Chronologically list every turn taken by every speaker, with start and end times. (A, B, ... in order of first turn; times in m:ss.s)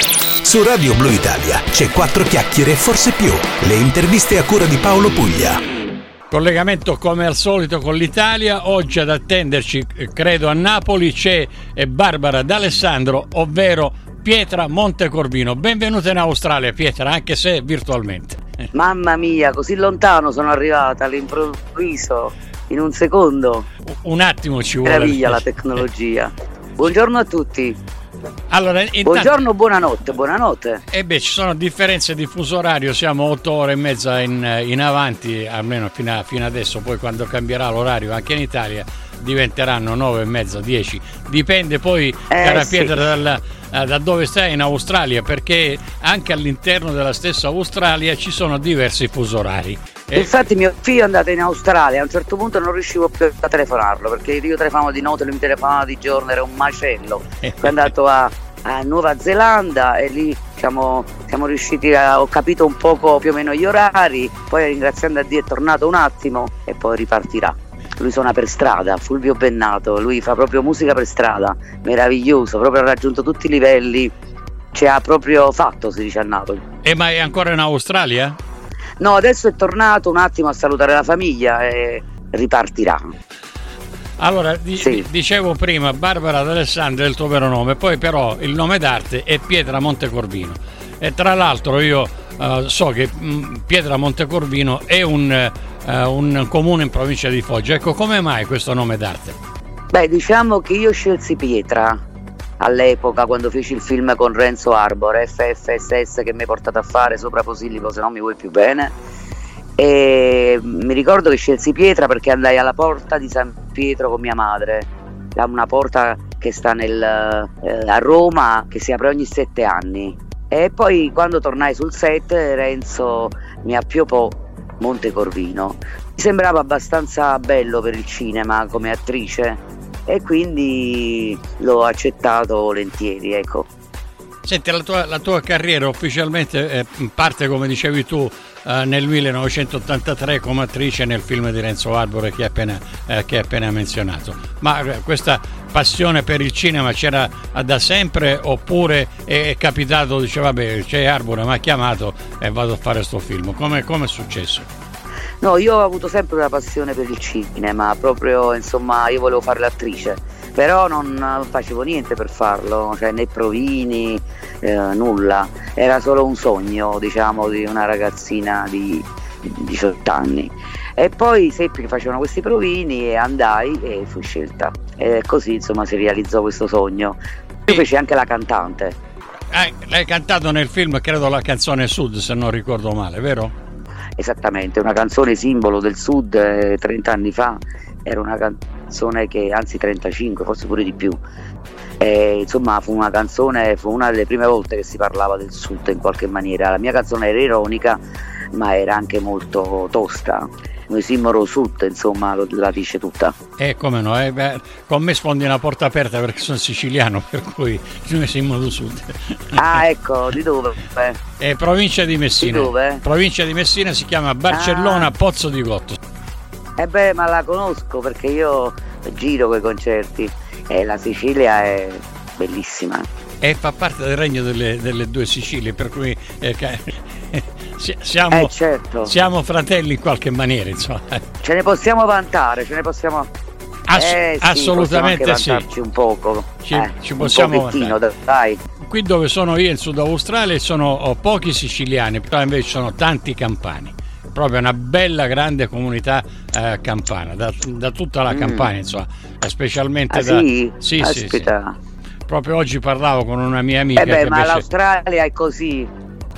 0:00.4-0:05.6 A
0:06.3-0:18.7 B
0:18.7-0:23.7 C
0:23.8-0:25.8 B
0:24.8-0:27.8 C
0:28.5-0:29.3 B
0:29.0-0:30.8 C
0:30.9-0:50.4 B
0:42.3-0:43.0 C
0:50.1-1:14.1 C
0:57.4-0:57.9 B
1:14.7-1:16.6 C
1:16.8-1:18.4 B
1:19.0-1:23.1 C
1:24.2-1:39.4 B
1:24.8-1:25.0 C
1:39.9-1:42.0 C
1:42.6-1:48.9 C
1:49.8-2:13.7 C
2:14.4-2:34.7 B
2:35.4-2:59.0 C
2:59.5-3:03.5 B
3:04.2-3:11.2 C
3:12.0-3:18.0 C
3:18.5-3:23.4 C
3:23.6-3:29.8 B
3:29.5-3:31.2 C
3:31.4-3:36.0 B
3:32.4-3:33.0 C
3:34.5-3:35.1 C
3:36.8-3:43.1 C
3:43.4-3:48.5 B
3:48.3-3:49.1 C
3:49.0-3:51.2 B
3:51.4-3:53.3 C
3:53.9-3:55.6 B
3:53.9-3:58.6 C
3:56.6-3:58.0 B
3:58.8-4:11.5 B
4:08.3-4:08.7 C
4:10.1-4:11.8 C
4:12.3-4:14.6 B
4:14.0-4:15.9 C